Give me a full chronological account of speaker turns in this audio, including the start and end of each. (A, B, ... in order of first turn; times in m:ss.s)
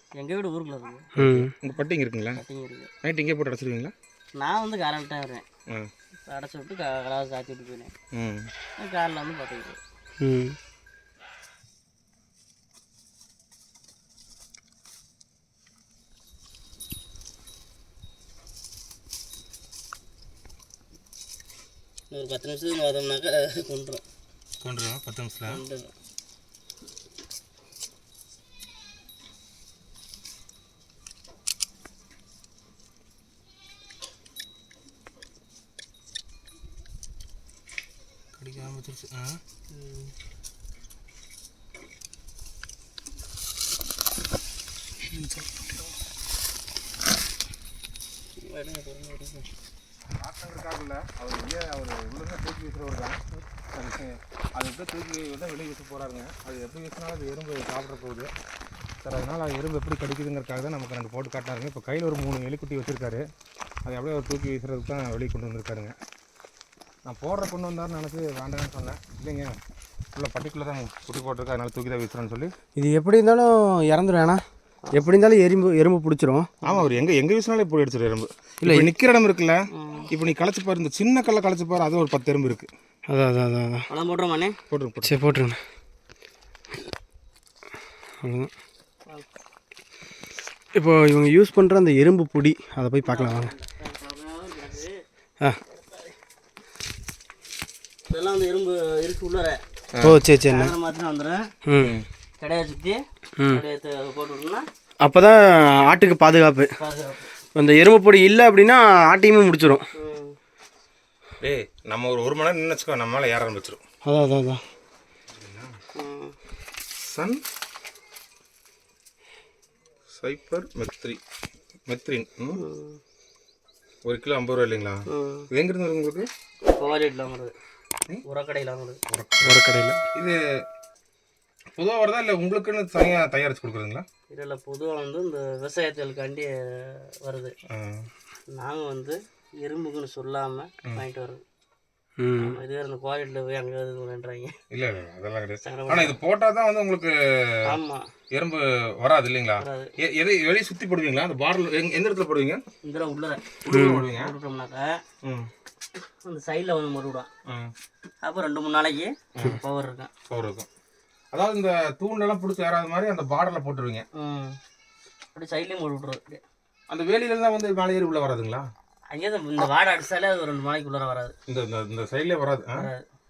0:00.2-0:01.1 A
0:01.2-0:01.5 B
0:01.2-0:02.4 C
0:02.4-0:02.9 A
0:03.0-0:03.9 C
0:04.4-0:05.4 A
0:06.2-0:07.9 A
0:08.1-0:08.5 C
0:08.8-0:09.8 A
0:10.2-0:10.6 B
0:22.1-0:24.0 A
0:24.6-0:25.6 C
0:25.5-0:25.9 A
0:38.4-0:39.4 C
0:39.7-0:40.1 A
0:48.4-0:49.5 A
0:50.2-0:53.2 C
0:53.7-0:58.3 C
0:59.0-1:03.2 C
1:03.8-1:05.9 C
1:07.1-1:09.6 C
1:10.2-1:12.5 C
1:12.8-1:14.4 B
1:14.9-1:16.5 B
1:16.6-1:19.6 C
1:18.6-1:18.9 B
1:19.8-1:20.1 A
1:20.1-1:22.7 C
1:23.1-1:23.8 B
1:23.9-1:24.6 A
1:24.7-1:25.2 C
1:25.0-1:25.6 B
1:28.2-1:28.5 B
1:30.8-1:33.5 B
1:33.0-1:35.0 A
1:38.1-1:39.6 A
1:40.0-1:40.7 B
1:40.4-1:41.5 A
1:41.6-1:41.9 B
1:41.8-1:42.1 C
1:42.4-1:44.6 A
1:45.0-1:46.7 B
1:46.8-1:47.2 A
1:47.6-1:49.8 B
1:50.0-1:50.4 A
1:51.4-1:53.8 C
1:54.0-1:54.6 B
1:55.4-1:55.7 C
1:56.0-1:56.3 A
1:57.0-1:57.4 C
2:00.2-2:01.2 C
2:01.9-2:02.6 C
2:02.6-2:03.0 A
2:04.0-2:06.3 C
2:05.1-2:05.5 A
2:06.7-2:07.5 A
2:08.2-2:09.0 A
2:09.1-2:09.5 C
2:09.4-2:10.0 B
2:11.8-2:14.0 C
2:14.3-2:17.5 A
2:17.7-2:18.1 C
2:18.5-2:21.4 A
2:22.2-2:22.6 B
2:22.4-2:24.5 A
2:24.7-2:27.1 C
2:25.6-2:26.2 A
2:27.7-2:28.1 A
2:28.3-2:32.6 C
2:29.6-2:29.9 A
2:32.8-2:35.0 A
2:33.6-2:34.3 C
2:33.7-2:34.0 B
2:35.2-2:35.5 C
2:36.2-2:37.3 A
2:38.2-2:40.1 A
2:40.3-2:40.7 C
2:41.3-2:44.0 C
2:44.2-2:44.6 A
2:45.3-2:46.4 A
2:46.9-2:48.7 C
2:49.1-2:51.3 A
2:51.5-2:52.8 C
2:52.8-2:53.0 A